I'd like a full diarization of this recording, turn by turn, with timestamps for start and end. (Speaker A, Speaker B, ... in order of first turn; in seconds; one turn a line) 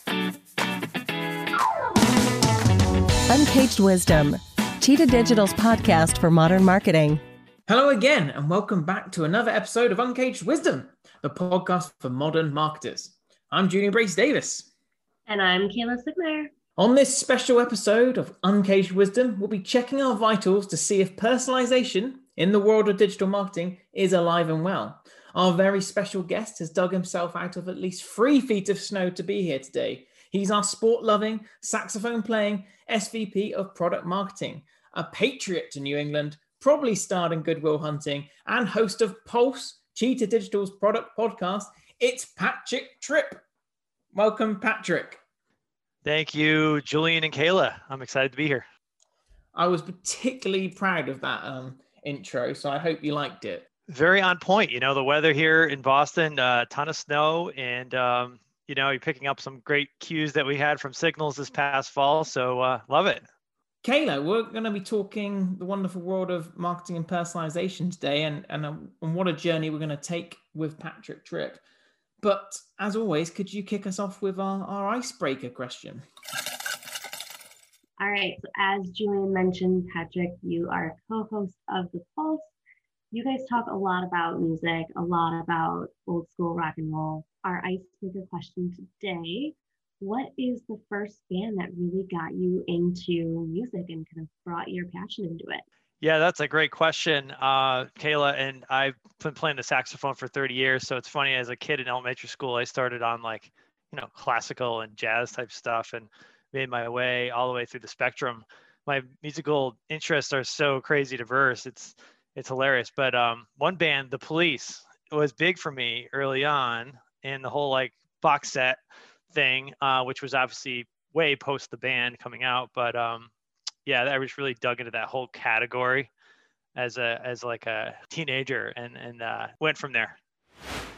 Speaker A: 3.3-7.2
Speaker B: 7.7-14.7
Speaker C: 15.3-16.5
Speaker B: 16.8-43.4
Speaker B: 44.1-45.2
Speaker D: 46.0-48.6
Speaker B: 49.5-53.6
Speaker D: 53.9-63.2
Speaker B: 63.8-71.6
Speaker B: 72.2-76.0
Speaker C: 78.0-82.5
Speaker C: 83.1-95.6
Speaker D: 96.0-118.8
Speaker D: 119.3-123.3
Speaker D: 123.8-126.1
Speaker D: 126.7-130.2